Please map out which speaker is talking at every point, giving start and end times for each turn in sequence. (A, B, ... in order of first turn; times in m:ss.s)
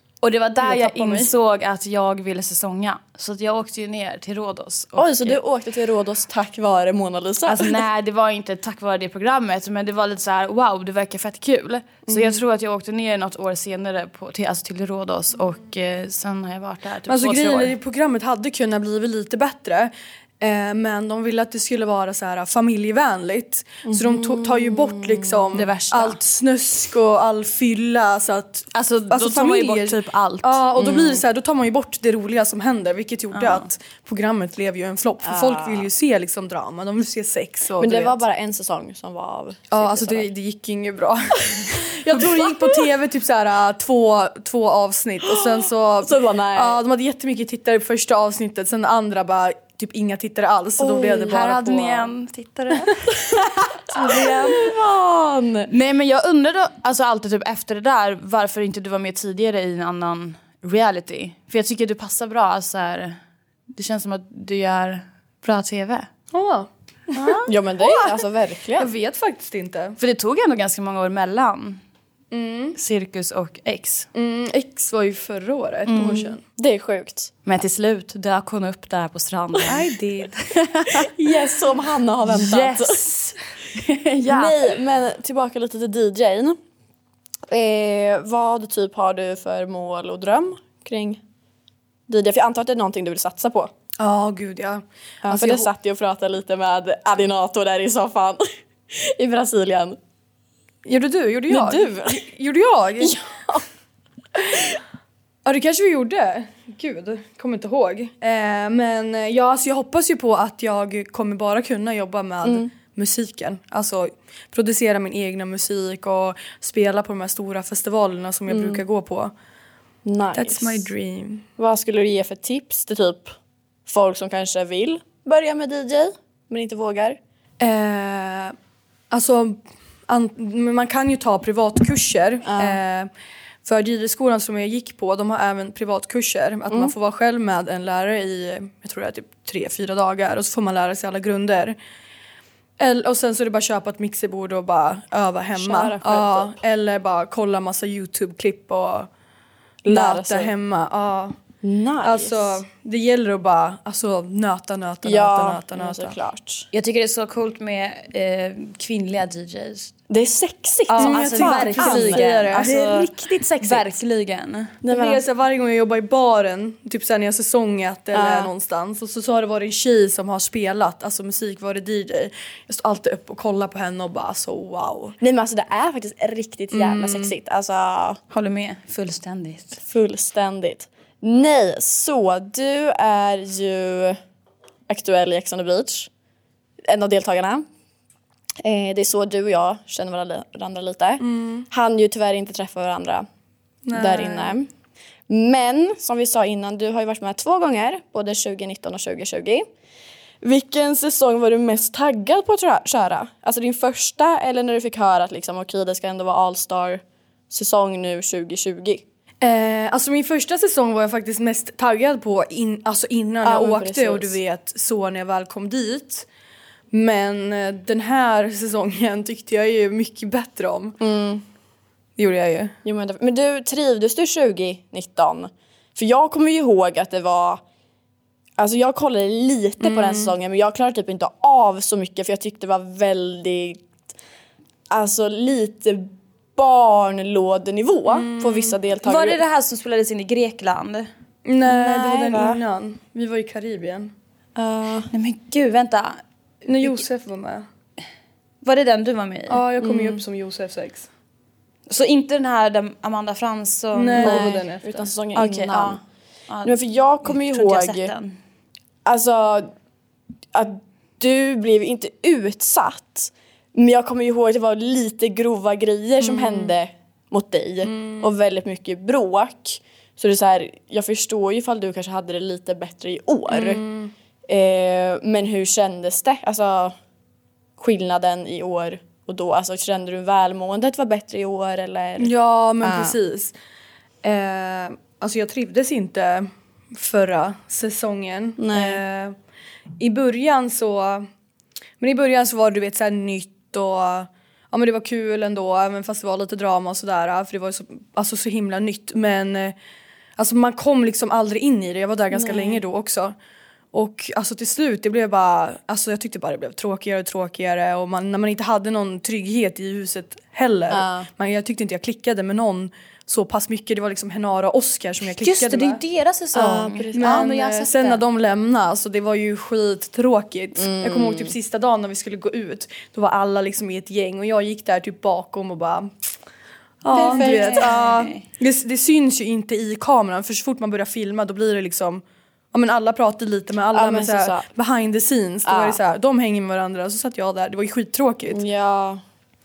0:00.2-0:05.4 A
0:00.6-0:01.3 B
0:05.0-0:07.8 C
0:07.5-0:17.8 A
0:17.1-0:38.2 B
0:23.8-0:25.5 C
0:25.5-0:26.2 A
0:28.7-0:30.6 A
0:30.8-0:31.2 C
0:33.3-0:33.7 A
0:35.2-0:35.9 C
0:37.8-0:40.3 C
0:39.7-0:52.1 B
0:45.2-0:46.8 C
0:50.8-0:51.5 C
0:51.3-0:53.3 A
0:53.9-0:54.7 A
0:53.9-0:55.7 C
0:55.7-1:03.2 A
1:03.7-1:06.1 A
1:06.3-1:07.4 B
1:07.2-1:07.5 A
1:07.4-1:08.9 C
1:08.8-1:10.0 B
1:10.0-1:11.8 A
1:12.3-1:12.8 B
1:12.8-1:14.1 A
1:14.1-1:16.4 B
1:15.9-1:16.3 A
1:16.4-1:17.3 C
1:17.4-1:21.1 A
1:19.7-1:20.3 B
1:20.8-1:23.0 C
1:22.2-1:23.4 A
1:23.9-1:24.6 A
1:24.2-1:26.6 C
1:27.5-1:31.2 C
1:32.1-1:33.7 C
1:34.0-1:35.7 B
1:35.2-1:40.0 C
1:40.8-1:43.2 B
1:41.5-1:42.2 C
1:43.0-1:43.6 C
1:45.4-1:59.3 B
1:52.4-1:52.7 C
1:58.5-1:58.8 C
2:00.0-2:00.8 C
2:00.3-2:01.4 B
2:01.6-2:03.3 C
2:03.8-2:07.2 C
2:07.6-2:08.5 B
2:09.1-2:13.1 B
2:12.4-2:12.8 C
2:13.6-2:21.8 B
2:22.8-2:29.1 B
2:25.6-2:26.6 C
2:29.8-2:30.5 C
2:29.9-2:31.4 B
2:31.6-2:32.6 C
2:32.0-2:36.2 B
2:35.0-2:36.7 C
2:36.7-2:39.9 A
2:40.1-2:43.9 C
2:40.9-2:44.8 A
2:41.0-2:42.7 B
2:44.8-2:45.2 C
2:44.9-2:55.2 B
2:48.1-2:48.5 C
2:55.2-2:58.2 C
2:56.7-2:57.3 B
2:58.3-2:59.8 A
2:59.8-3:04.2 C
3:04.9-3:06.1 C
3:06.8-3:07.7 C
3:08.6-3:13.3 C
3:11.2-3:11.7 B
3:13.8-3:14.6 B
3:13.9-3:14.7 C
3:15.3-3:19.7 C
3:20.4-3:29.0 C
3:29.4-3:36.3 B
3:33.4-3:34.4 C
3:36.9-3:41.0 B
3:41.0-3:41.4 C
3:42.2-3:42.7 B
3:42.8-3:47.6 C
3:48.6-3:53.8 C
3:49.8-3:50.3 B
3:54.9-3:59.4 C
3:58.1-3:58.8 B
3:59.0-4:01.1 A
4:01.4-4:04.1 B
4:01.7-4:02.6 C
4:04.6-4:05.1 C
4:05.1-4:06.2 A
4:06.6-4:07.6 B
4:08.6-4:09.6 A
4:09.5-4:11.1 B
4:11.9-4:14.6 A
4:13.9-4:14.9 B
4:14.2-4:16.0 C
4:15.3-4:18.3 A
4:16.6-4:18.1 C
4:19.0-4:19.7 C
4:20.5-4:33.8 C
4:26.2-4:26.6 B
4:27.8-4:28.2 B
4:33.5-4:34.1 B
4:34.5-4:36.9 C
4:37.8-4:43.1 C
4:42.2-4:43.5 B
4:44.2-4:49.3 B
4:48.6-4:49.0 C
4:50.0-4:51.3 B
4:52.0-4:59.7 B
5:00.4-5:03.3 B
5:02.3-5:02.8 C
5:03.9-5:16.0 B
5:10.9-5:11.3 C
5:15.4-5:18.2 A
5:16.5-5:17.5 C
5:17.2-5:26.1 B
5:20.8-5:21.5 C
5:27.0-5:38.6 B
5:27.1-5:28.0 C
5:27.1-5:28.4 A
5:33.9-5:34.7 C
5:35.6-5:36.0 C
5:38.5-5:39.2 C